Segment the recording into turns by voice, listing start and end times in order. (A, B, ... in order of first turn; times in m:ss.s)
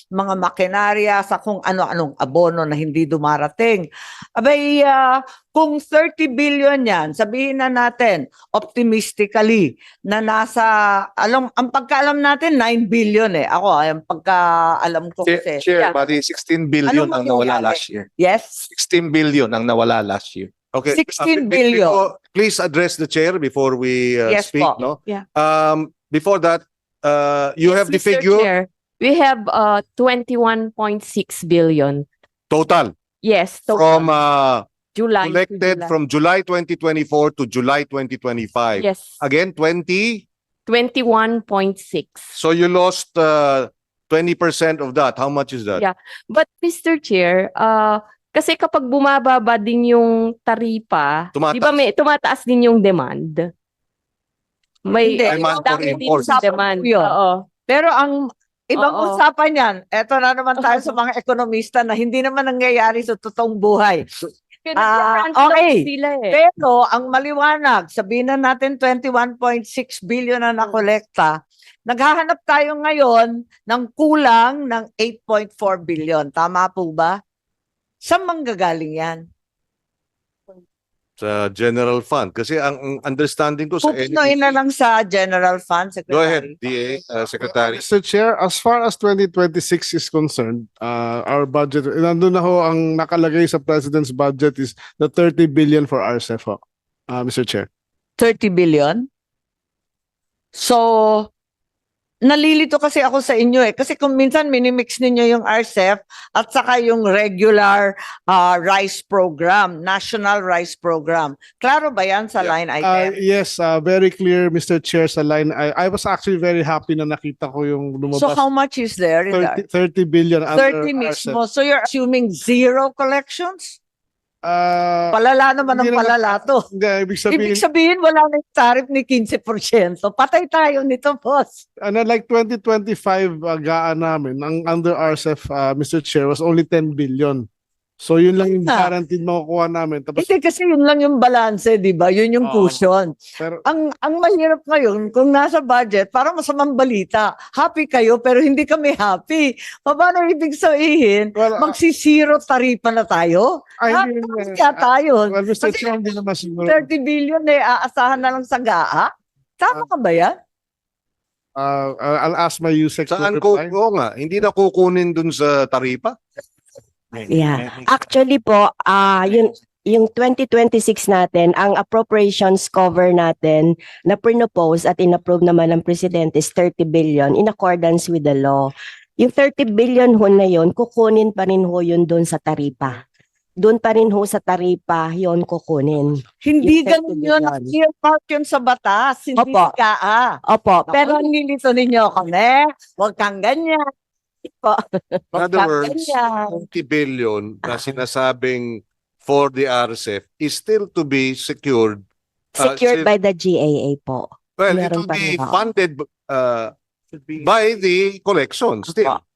0:00.1-0:15.7 A
0:15.2-0:18.1 B
0:16.8-0:18.7 A
0:18.6-0:20.5 B
0:20.7-0:28.5 C
0:20.9-0:22.0 A
0:24.3-0:24.8 A
0:27.6-0:32.1 D
0:32.5-0:32.9 C
0:33.2-0:34.1 D
0:33.7-0:34.7 C
0:34.9-0:35.9 D
0:35.2-0:40.3 C
0:38.8-0:39.2 D
0:40.7-0:42.4 D
0:42.4-0:45.8 C
0:45.8-0:53.5 D
0:51.4-0:51.8 C
0:54.8-0:57.5 D
0:54.9-0:57.1 A
0:55.2-0:56.3 C
0:57.7-0:58.2 A
0:58.7-1:04.0 A
0:58.8-0:59.2 D
1:00.6-1:00.9 D
1:04.6-1:06.4 D
1:04.8-1:17.2 A
1:18.0-1:19.3 A
1:21.2-1:24.6 C
1:23.8-1:26.5 A
1:26.1-1:27.8 C
1:27.4-1:37.7 E
1:38.2-1:39.1 A
1:40.6-1:41.3 A
1:42.2-1:53.2 A
1:52.8-1:58.4 E
1:58.2-1:59.6 A
1:59.3-2:01.4 E
2:00.5-2:03.8 A
2:04.4-2:07.6 E
2:05.1-2:06.6 A
2:07.3-2:11.6 A
2:11.8-2:17.5 E
2:18.0-2:20.3 E
2:20.2-2:35.9 A
2:22.4-2:22.8 E
2:23.4-2:23.6 E
2:31.4-2:31.8 E
2:33.8-2:36.9 E
2:36.6-2:40.4 A
2:41.6-2:43.7 E
2:43.1-2:46.2 C
2:47.3-3:03.0 F
3:03.6-3:07.8 F
3:06.4-3:13.8 A
3:09.4-3:09.8 F
3:10.5-3:11.3 F
3:15.3-3:22.0 C
3:15.4-3:16.6 A
3:17.7-3:18.0 F
3:22.6-3:25.6 F
3:22.6-3:23.1 C
3:24.6-3:26.7 C
3:27.3-3:29.2 C